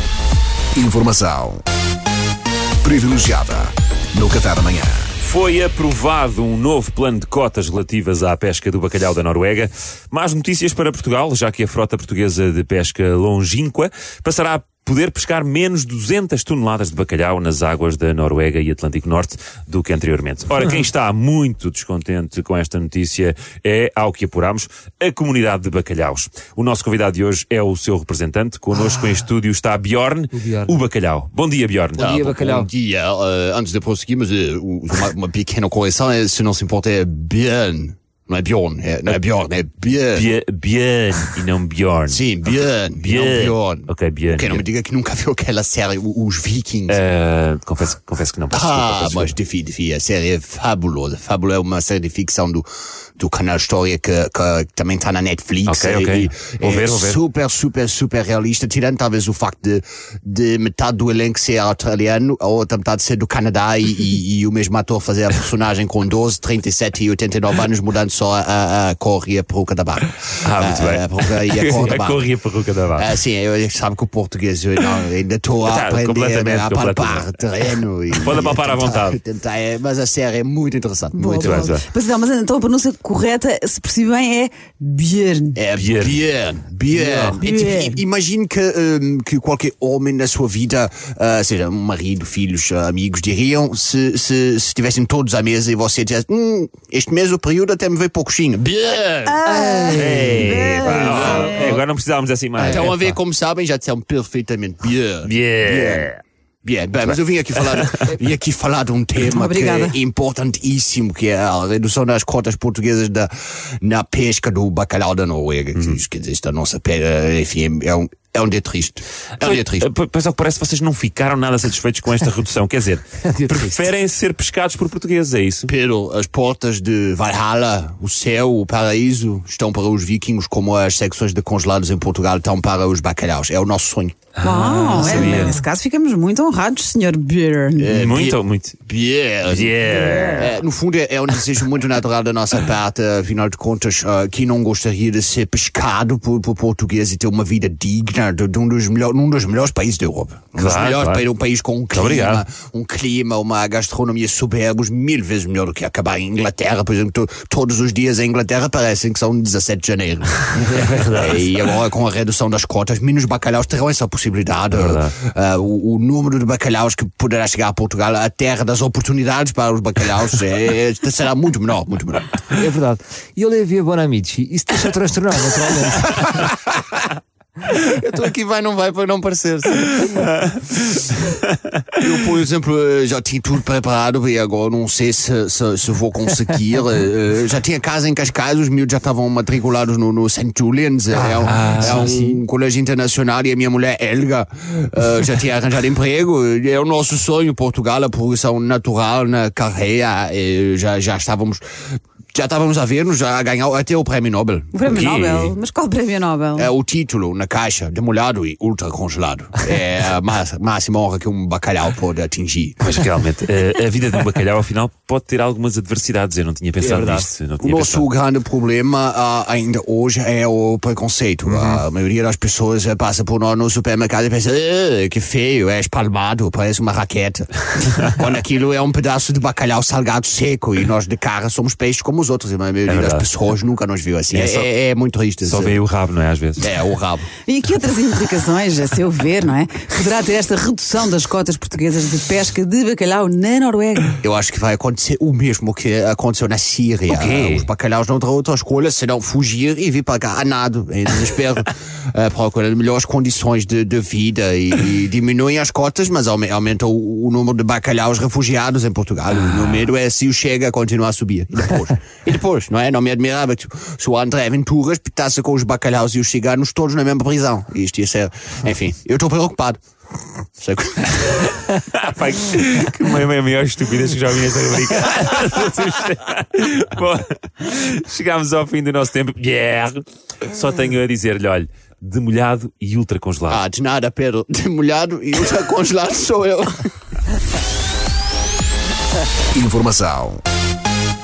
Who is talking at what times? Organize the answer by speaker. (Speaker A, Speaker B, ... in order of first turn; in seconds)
Speaker A: 0.8-1.6, 2.8-5.1, 289.5-290.4
Speaker B: 5.2-32.1, 40.1-42.2, 43.0-44.6, 46.9-49.3, 55.7-57.2, 70.4-73.1, 75.6-77.3, 78.1-79.2, 81.4-81.8, 85.8-86.2, 99.9-103.1, 105.2-106.2, 107.6-107.9, 119.4-125.7, 134.4-135.6, 137.9-138.8, 139.5-140.5, 150.6-151.2, 151.9-152.4, 160.6-161.6, 164.7-165.1, 180.4-181.8, 191.4-192.2, 204.8-205.6, 212.8-218.1, 221.5-221.8, 232.9-233.2, 234.3-234.7, 235.4-236.7, 247.1-247.7, 271.4-283.6
Speaker C: 30.3-30.8, 31.9-32.7, 86.9-87.4, 99.7-100.4, 123.2-123.8, 160.6-160.9, 172.5-176.5, 216.8-217.3
Speaker D: 32.0-40.3, 42.1-47.0, 48.5-52.6, 53.2-72.3, 72.9-81.7, 85.5-99.6, 100.2-101.7, 102.6-106.1, 106.6-119.9, 125.7-134.2, 135.0-135.5, 137.8-172.6, 176.2-177.0, 177.6-180.3, 182.0-204.7, 206.6-212.8, 217.6-235.8, 236.6-237.3, 244.2-269.8, 270.6-271.6, 283.5-286.9
Speaker E: 81.1-85.6, 87.4-88.0, 99.3-101.8, 109.2-110.0, 134.4-137.9, 140.1-140.3, 204.7-206.7, 237.4-244.2